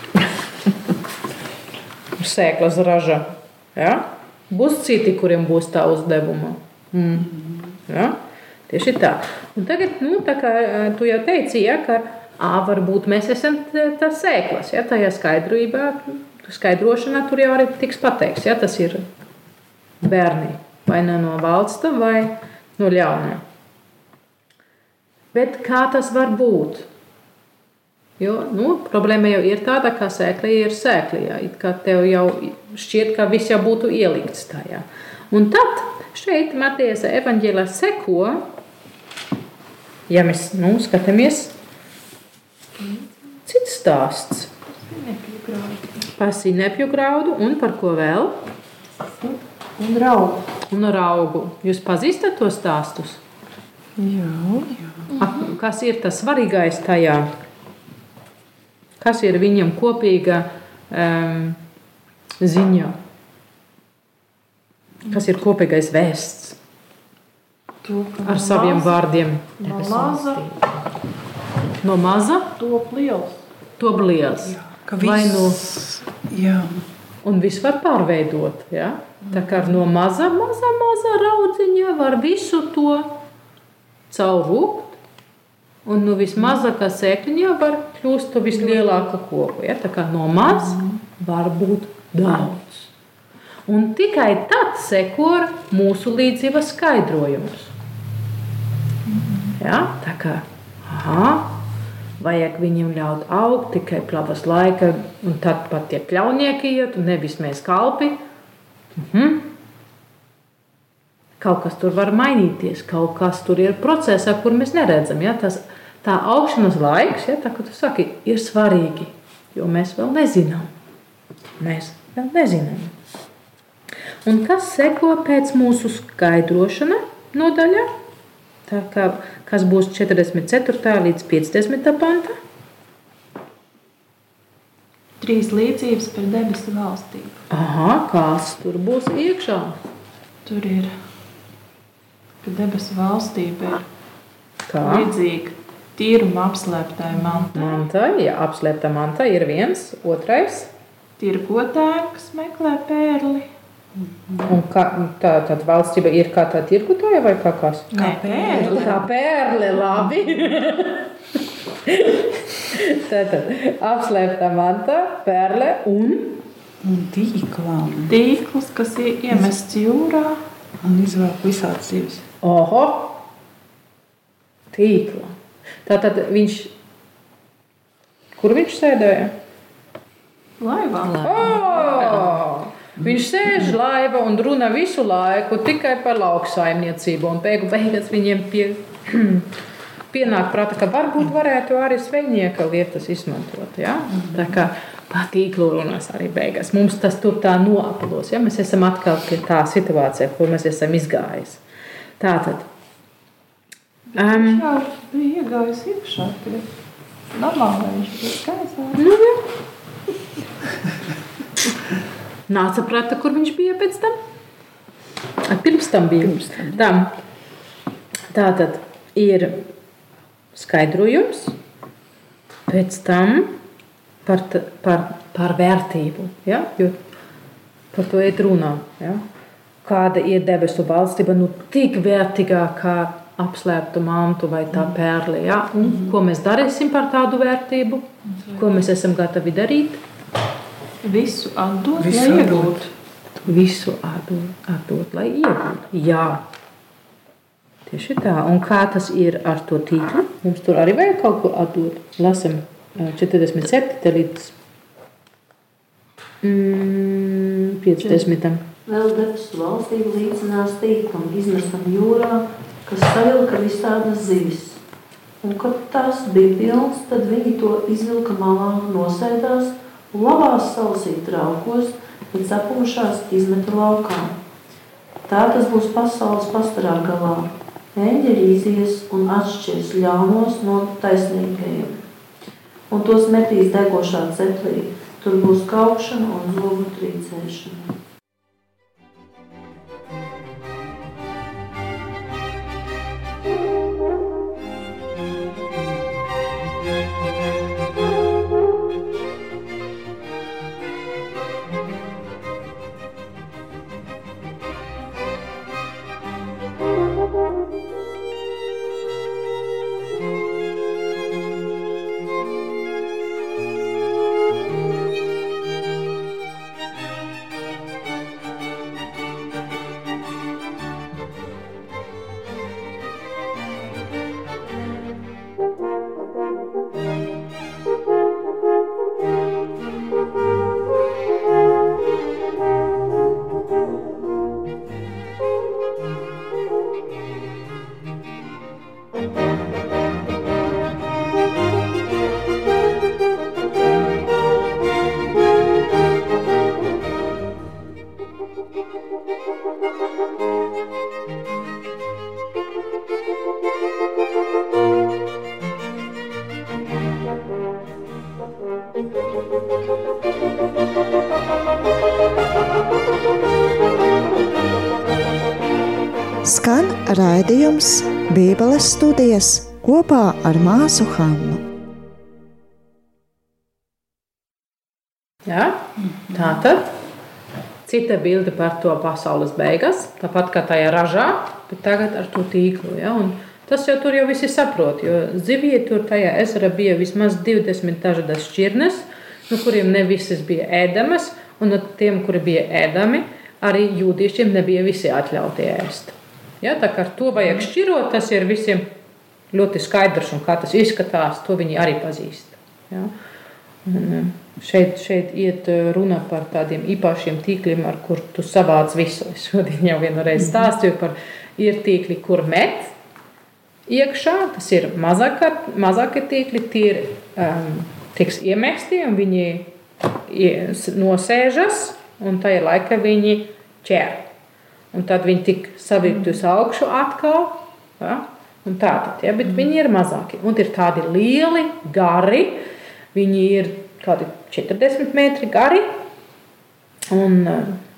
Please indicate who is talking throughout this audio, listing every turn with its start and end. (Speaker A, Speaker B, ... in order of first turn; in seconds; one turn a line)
Speaker A: 2.2-7.3
Speaker A: 7.9-8.2
Speaker A: 8.7-19.1
Speaker A: 20.0-23.4
Speaker A: 25.3-26.9
Speaker A: 28.2-38.5
Speaker A: 40.1-41.5
Speaker B: 42.8-43.1
Speaker A: 43.5-44.5
Speaker B: 44.7-46.1
Speaker A: 46.2-48.4
Speaker B: 49.0-50.5
Speaker A: 50.7-53.2
Speaker B: 54.0-55.5
Speaker C: 54.1-55.0
Speaker A: 55.2-57.3
Speaker A: 59.0-61.6
Speaker A: 62.4-63.0
Speaker A: 65.1-66.6
Speaker B: 67.8-69.0
Speaker A: 68.2-70.7
Speaker B: 69.6-70.4
Speaker A: 71.8-72.5
Speaker B: 72.6-73.4
Speaker A: 73.8-75.6
Speaker C: 74.5-76.8
Speaker A: 77.2-83.2
Speaker A: 84.1-85.0
Speaker A: 85.8-92.9
Speaker A: 93.7-97.7
Speaker B: 99.1-99.6
Speaker A: 99.6-101.6
Speaker A: 102.2-108.2
Speaker A: 109.0-109.5
Speaker A: 111.4-120.7
Speaker A: 121.6-122.9
Speaker A: 124.2-127.9
Speaker A: 128.7-132.4
Speaker B: 135.2-137.4
Speaker A: 137.5-139.8
Speaker B: 140.5-140.9
Speaker B: 142.4-143.9
Speaker A: 144.7-145.1
Speaker B: 144.8-147.8
Speaker A: 147.5-150.7
Speaker B: 151.2-153.5
Speaker C: 154.0-154.5
Speaker A: 154.5-157.9
Speaker B: 157.9-159.0
Speaker C: 157.9-159.0
Speaker A: 158.5-161.1
Speaker A: 161.8-166.4
Speaker C: 166.8-168.2
Speaker B: 168.1-170.4
Speaker C: 170.8-172.2
Speaker A: 172.4-173.2
Speaker A: 174.7-175.3
Speaker A: 175.8-176.7
Speaker A: 178.4-179.3
Speaker B: 180.6-182.3
Speaker A: 181.2-189.5
Speaker C: 181.3-181.7
Speaker A: 190.1-201.6
Speaker A: 202.2-202.7
Speaker B: 204.1-206.7
Speaker A: 204.2-204.7
Speaker B: 207.3-209.0
Speaker A: 209.0-209.4
Speaker A: 212.5-214.2
Speaker A: 215.5-217.1
Speaker C: 216.2-216.8
Speaker A: 218.3-219.7
Speaker A: 220.5-221.6
Speaker A: 222.7-223.6
Speaker A: 224.2-227.0
Speaker A: 227.9-229.2
Speaker A: 229.8-240.0
Speaker B: 238.4-238.6
Speaker B: 241.0-242.9
Speaker C: 242.0-242.8
Speaker A: 243.4-246.4
Speaker A: 247.9-254.5
Speaker A: 256.4-261.1
Speaker D: 258.9-264.8
Speaker A: 264.0-264.4
Speaker D: 265.4-274.3
Speaker A: 265.5-267.9
Speaker A: 268.7-269.6
Speaker A: 270.3-271.5
Speaker D: 275.3-281.9
Speaker A: 275.3-277.1
Speaker A: 279.5-279.8
Speaker D: 282.9-287.7
Speaker A: 283.7-284.5
Speaker E: 366.4-371.6
Speaker A: 375.5-376.9
Speaker A: 377.9-398.9
Speaker A: 399.5-403.1
Speaker A: 403.9-412.9
Speaker A: 413.9-419.7
Speaker A: 420.3-424.3
Speaker A: 424.9-435.9
Speaker A: 437.1-437.8